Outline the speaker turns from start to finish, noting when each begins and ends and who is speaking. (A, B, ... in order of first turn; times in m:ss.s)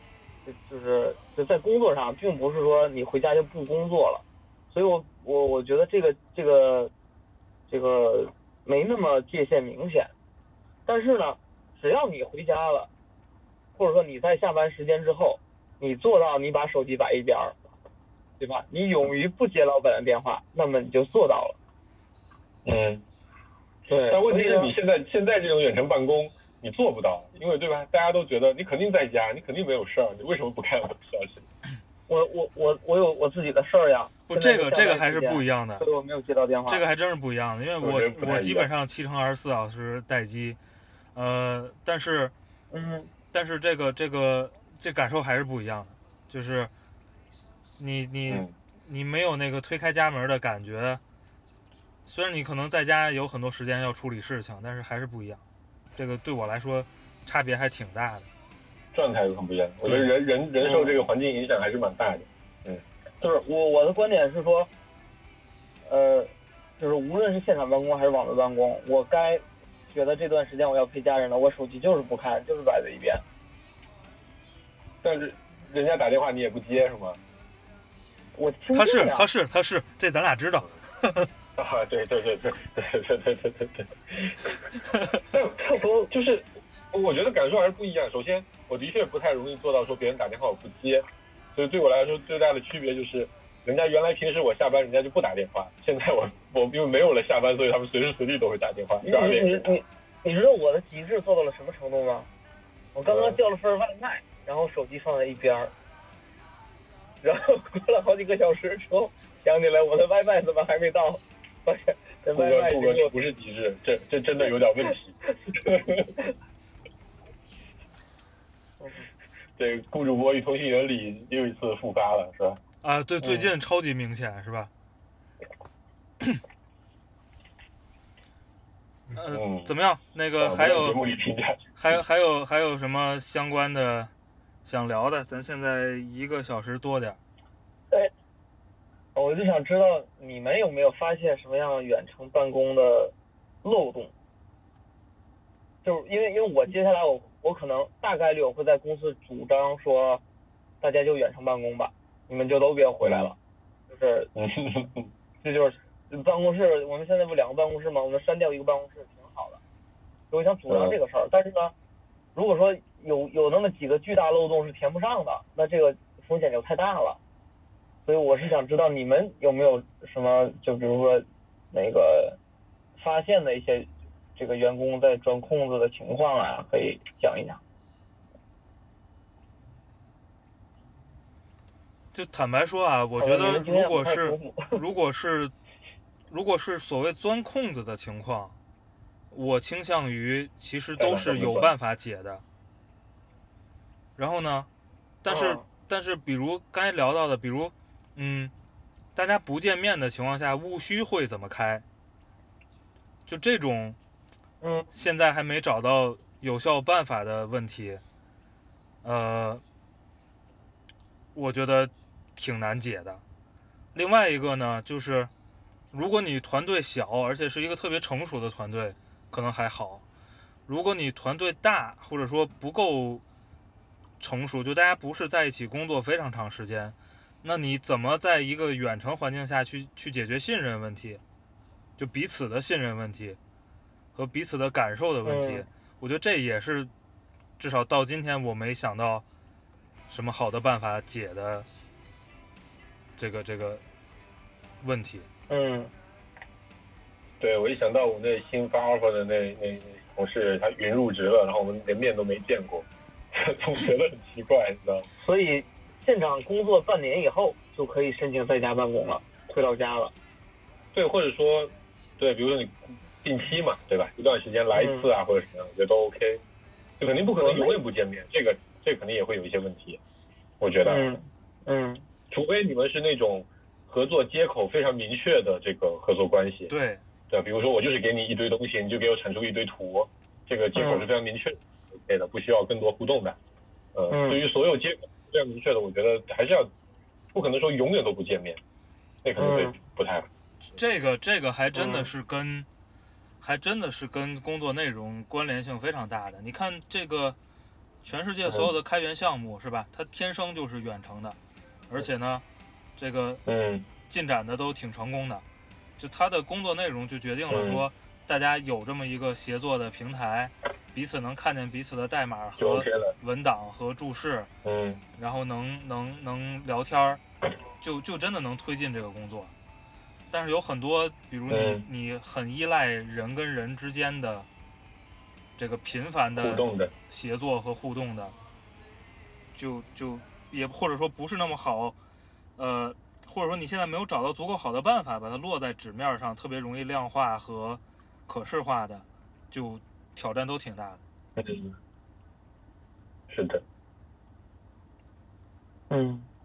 0:00.4-0:06.9 A
0:07.7-0:10.1 A
0:10.8-0:12.9 A
0:13.8-0:17.6 A
0:18.4-0:21.6 A
0:22.6-0:23.0 B
0:23.9-0:24.7 A
0:24.0-0:31.5 B
0:32.1-0:36.8 A
0:34.3-0:35.8 C
0:36.7-0:40.6 C
0:37.8-0:38.7 B
0:41.1-0:42.3 C
0:42.7-0:43.1 A
0:43.3-0:46.7 C
0:47.8-0:51.0 C
0:48.3-0:48.5 B
0:52.0-0:55.4 C
0:56.0-0:58.3 C
0:58.9-1:02.8 B
0:59.8-1:00.1 C
1:00.6-1:01.0 A
1:03.2-1:04.7 A
1:05.9-1:13.2 A
1:15.0-1:17.2 B
1:18.3-1:19.3 A
1:18.7-1:21.3 C
1:21.6-1:24.6 B
1:25.3-1:39.7 B
1:25.6-1:26.1 A
1:39.0-1:42.3 A
1:42.9-1:45.7 A
1:43.1-1:43.4 B
1:47.2-1:53.1 A
1:52.3-1:56.1 B
1:59.6-2:02.6 B
2:02.8-2:04.7 C
2:09.1-2:11.0 C
2:09.3-2:09.7 B
2:10.4-2:11.7 B
2:11.8-2:14.1 C
2:14.6-2:17.2 C
2:19.1-2:24.1 A
2:25.8-2:30.2 A
2:30.8-2:33.4 A
2:33.0-2:33.3 B
2:33.9-2:34.3 A
2:34.3-2:35.1 B
2:35.4-2:39.6 A
2:40.3-2:41.7 A
2:40.7-2:41.0 B
2:42.3-2:47.2 A
2:48.0-2:52.4 A
2:53.0-2:57.6 A
3:02.1-3:05.5 C
3:03.2-3:04.8 A
3:06.3-3:08.5 C
3:09.3-3:12.4 C
3:11.0-3:11.7 B
3:14.2-3:14.7 C
3:15.2-3:18.5 C
3:15.3-3:15.6 A
3:19.1-3:21.8 C
3:23.3-3:24.0 C
3:24.6-3:24.9 A
3:24.9-3:28.0 C
3:29.0-3:29.6 C
3:31.3-3:33.2 C
3:33.9-3:35.3 C
3:35.9-3:40.0 C
3:40.7-3:43.2 C
3:44.2-3:51.2 C
3:52.0-3:53.4 C
3:54.1-3:56.9 C
3:55.2-3:55.6 A
3:57.6-3:59.2 C
4:00.1-4:01.7 C
4:03.2-4:03.8 C
4:04.8-4:05.3 C
4:05.5-4:05.9 A
4:07.4-4:15.1 B
4:15.2-4:20.1 A
4:20.9-4:26.4 B
4:24.7-4:25.1 A
4:27.0-4:30.0 B
4:27.4-4:27.8 A
4:30.6-4:31.1 B
4:30.8-4:32.0 A
4:32.3-4:36.7 B
4:36.7-4:37.0 C
4:37.3-4:43.4 B
4:40.8-4:41.1 A
4:43.9-4:46.7 B
4:44.1-4:44.4 A
4:47.3-4:48.6 B
4:49.2-4:50.3 B
4:49.4-4:49.8 A
4:50.7-4:52.7 C
4:51.7-4:52.1 A
4:53.4-4:57.4 C
4:58.0-5:01.4 C
4:58.5-4:58.7 B
5:01.9-5:02.4 C
5:03.0-5:03.4 C
5:03.4-5:03.9 B
5:04.0-5:05.4 C
5:06.0-5:14.5 C
5:07.5-5:07.9 B
5:12.6-5:13.1 B
5:14.6-5:15.0 B
5:15.2-5:17.2 C
5:17.8-5:19.5 C
5:20.3-5:24.5 C
5:21.5-5:21.8 B
5:25.6-5:28.3 C
5:26.4-5:26.9 B
5:29.5-5:32.0 C
5:32.6-5:41.0 C
5:41.4-5:41.8 B
5:43.3-5:43.6 B
5:45.9-5:46.3 A